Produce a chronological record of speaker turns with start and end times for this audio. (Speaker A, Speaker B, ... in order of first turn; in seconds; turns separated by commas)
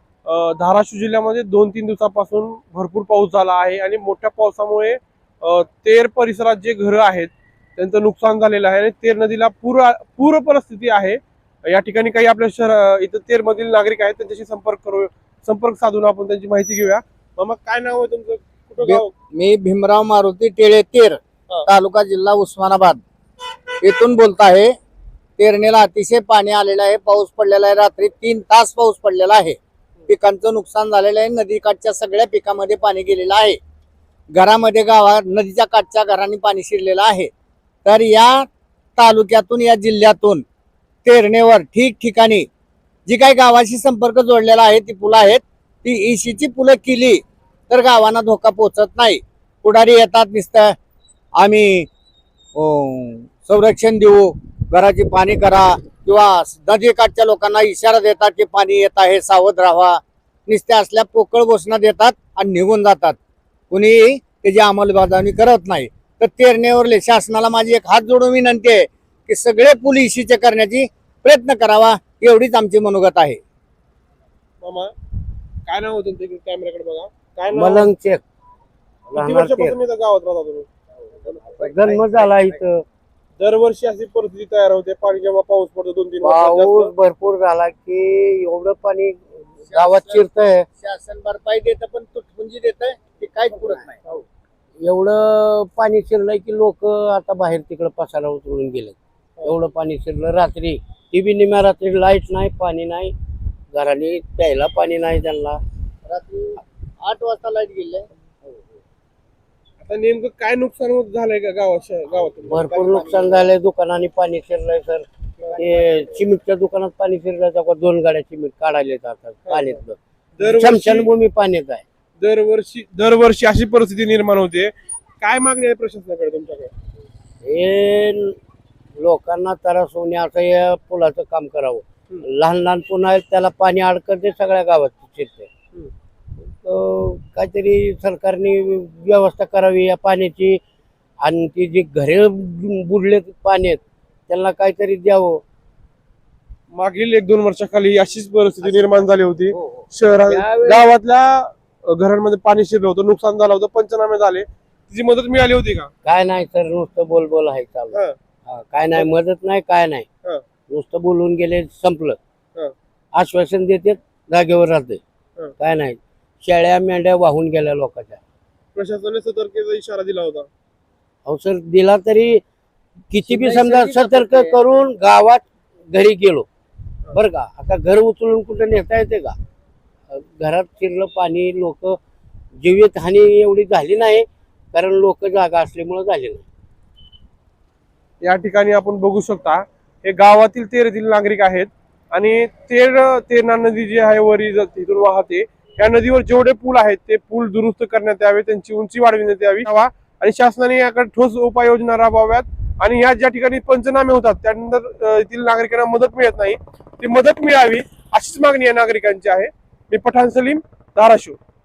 Speaker A: 0.2-19.1, Speaker B: 18.8-23.0, Speaker B: 23.8-24.7, Speaker B: 25.4-33.6, Speaker B: 34.3-37.3, Speaker B: 37.8-40.4, Speaker B: 41.0-42.5, Speaker B: 43.0-50.8, Speaker B: 51.4-51.9, Speaker B: 52.5-63.2, Speaker B: 63.7-73.4, Speaker A: 74.6-74.9, Speaker A: 75.7-77.9, Speaker C: 77.5-78.2, Speaker C: 79.1-79.7, Speaker A: 79.2-80.7, Speaker C: 81.5-82.8, Speaker A: 83.4-86.9, Speaker C: 86.2-90.7, Speaker B: 89.7-90.3, Speaker B: 90.8-94.0, Speaker C: 94.8-103.1, Speaker C: 103.7-105.6, Speaker B: 106.1-108.1, Speaker A: 109.8-112.8, Speaker C: 112.5-121.8, Speaker B: 112.7-113.5, Speaker A: 119.5-119.8, Speaker A: 120.4-121.1, Speaker A: 122.2-126.7, Speaker C: 127.4-128.4, Speaker C: 129.0-135.5, Speaker C: 136.5-140.6, Speaker C: 141.2-145.4, Speaker A: 146.8-155.9, Speaker C: 148.6-148.9, Speaker C: 149.5-150.9, Speaker C: 156.0-160.1, Speaker C: 160.7-162.2, Speaker C: 163.1-165.0, Speaker C: 165.6-168.2, Speaker A: 168.7-170.5, Speaker C: 171.2-172.4, Speaker C: 173.1-176.5, Speaker C: 177.1-179.3, Speaker C: 180.1-182.0, Speaker C: 182.6-186.4, Speaker A: 188.2-211.4